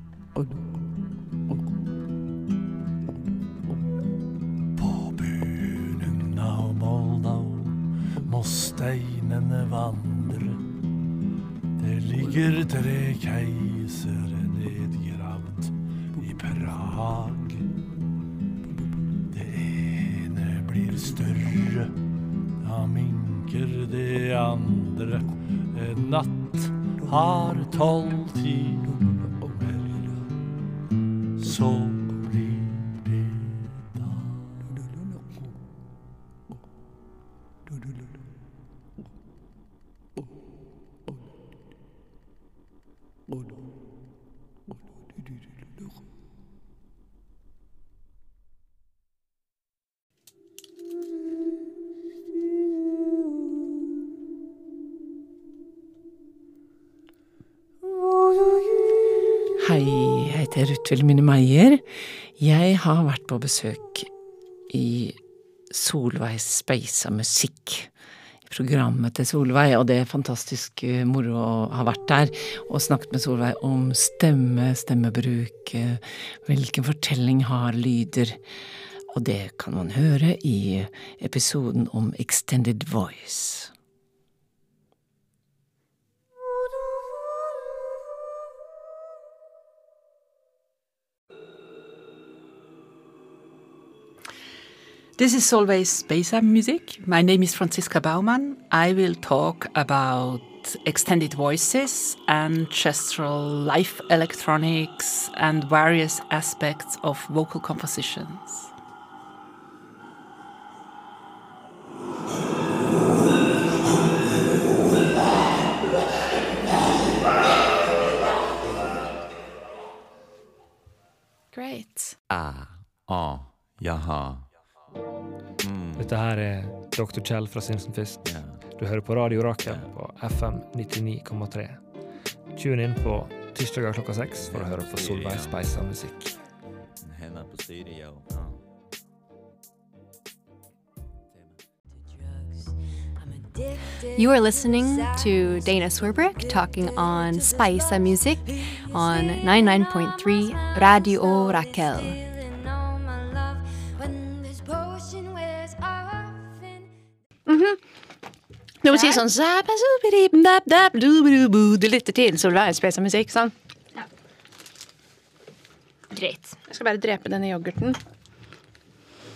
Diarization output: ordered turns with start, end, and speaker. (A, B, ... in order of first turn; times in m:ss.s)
0:04.8-0:10.6 A
0:11.8-0:17.7 A
0:19.3-0:21.9 A
0:22.6-0:30.3 A
0:31.4-0:34.8 A
0:59.6-1:04.1 B
1:04.7-1:07.9 B
1:08.5-1:18.4 B
1:19.1-1:23.7 B
1:35.2-1:48.7 C
2:01.5-2:02.2 D
2:02.3-2:04.5 E
2:05.6-2:06.1 E
2:06.0-2:11.9 F
2:08.2-2:08.7 E
2:09.6-2:09.9 E
2:12.5-2:16.4 F
2:14.5-2:15.6 E
2:17.0-2:18.6 E
2:24.1-2:32.2 G
2:37.5-2:37.8 D
2:38.8-2:43.5 D
2:46.1-2:48.0 D